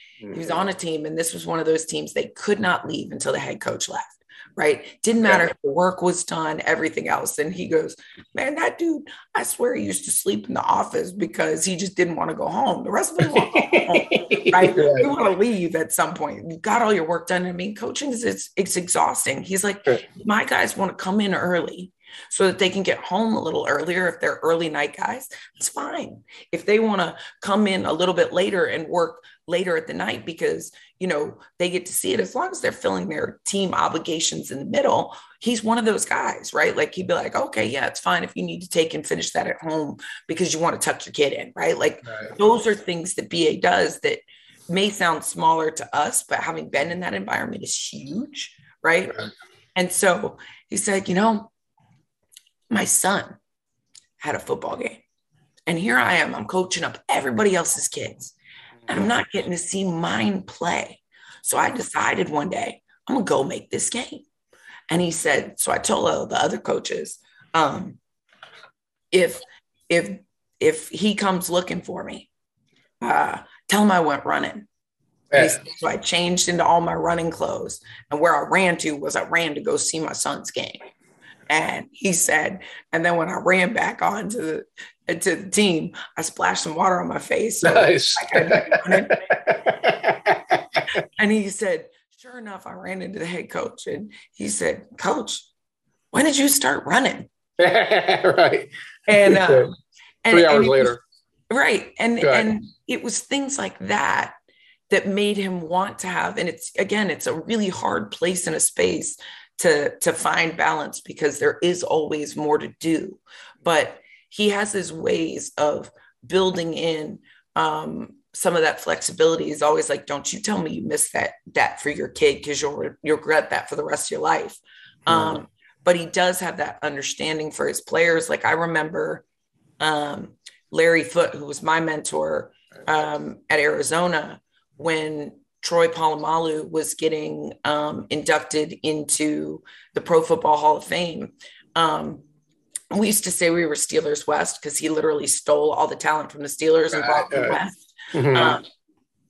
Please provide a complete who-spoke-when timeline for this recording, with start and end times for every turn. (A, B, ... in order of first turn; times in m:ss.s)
0:00.3-0:49.2 A
0:13.3-0:15.1 B
0:49.8-0:51.5 A
0:52.7-0:53.4 A
0:54.2-0:55.0 A
0:55.7-0:58.4 A
0:58.9-1:04.2 A
1:04.9-1:08.0 A
1:09.1-1:12.3 A
1:13.0-1:14.7 A
1:15.3-1:15.6 B
1:15.3-1:20.8 A
1:21.5-1:29.4 A
1:27.6-1:31.0 B
1:31.2-1:35.5 A
1:36.1-1:37.3 A
1:37.6-1:39.7 B
1:39.1-1:41.0 A
1:40.3-1:41.0 B
1:41.5-1:44.4 A
1:42.2-1:42.5 B
1:44.9-2:09.2 A
2:05.1-2:05.4 B
2:09.8-2:22.2 A
2:22.9-2:28.6 A
2:26.9-2:27.6 B
2:28.1-2:28.6 B